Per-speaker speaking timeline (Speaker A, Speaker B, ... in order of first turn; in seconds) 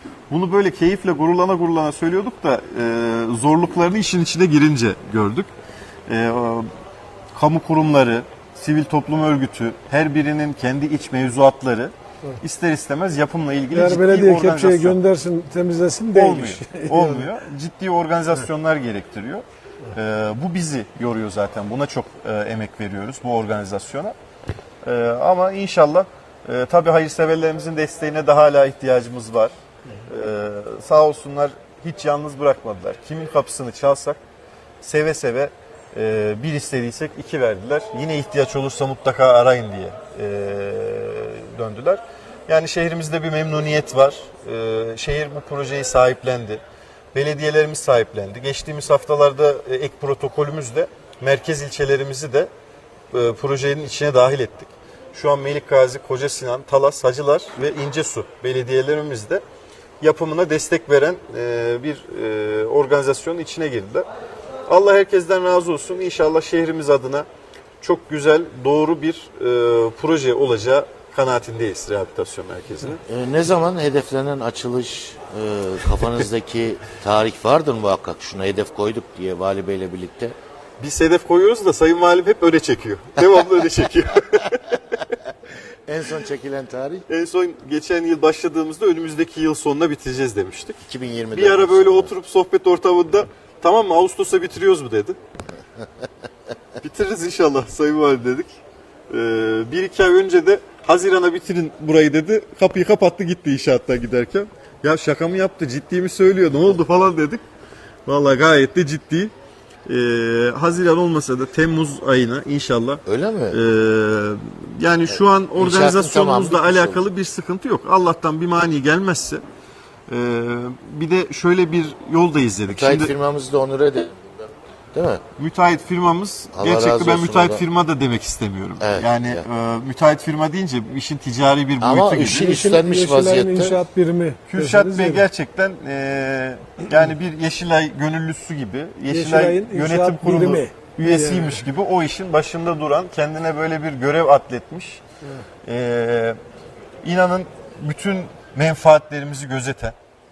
Speaker A: 0.3-5.5, 6.1-6.7, 7.3-15.0, 16.1-24.1, 24.8-29.5, 30.1-34.2, 34.8-46.6, 47.1-52.5, 53.1-59.4, 60.0-64.1, 64.7-67.3, 67.8-73.0, 80.8-85.1, 87.1-90.8, 91.3-95.2, 96.8-98.6, 99.1-107.4, 108.1-109.3, 109.9-119.4, 120.1-123.2, 125.4-132.6, 134.5-145.0, 145.6-146.4, 147.0-149.9
Speaker B: 13.7-17.3, 132.4-135.3, 139.1-141.7
Speaker C: 73.1-80.3, 85.9-87.0, 90.8-92.1, 113.0-113.6, 115.1-117.0, 122.7-125.2, 126.5-127.7, 128.8-129.4, 131.8-133.8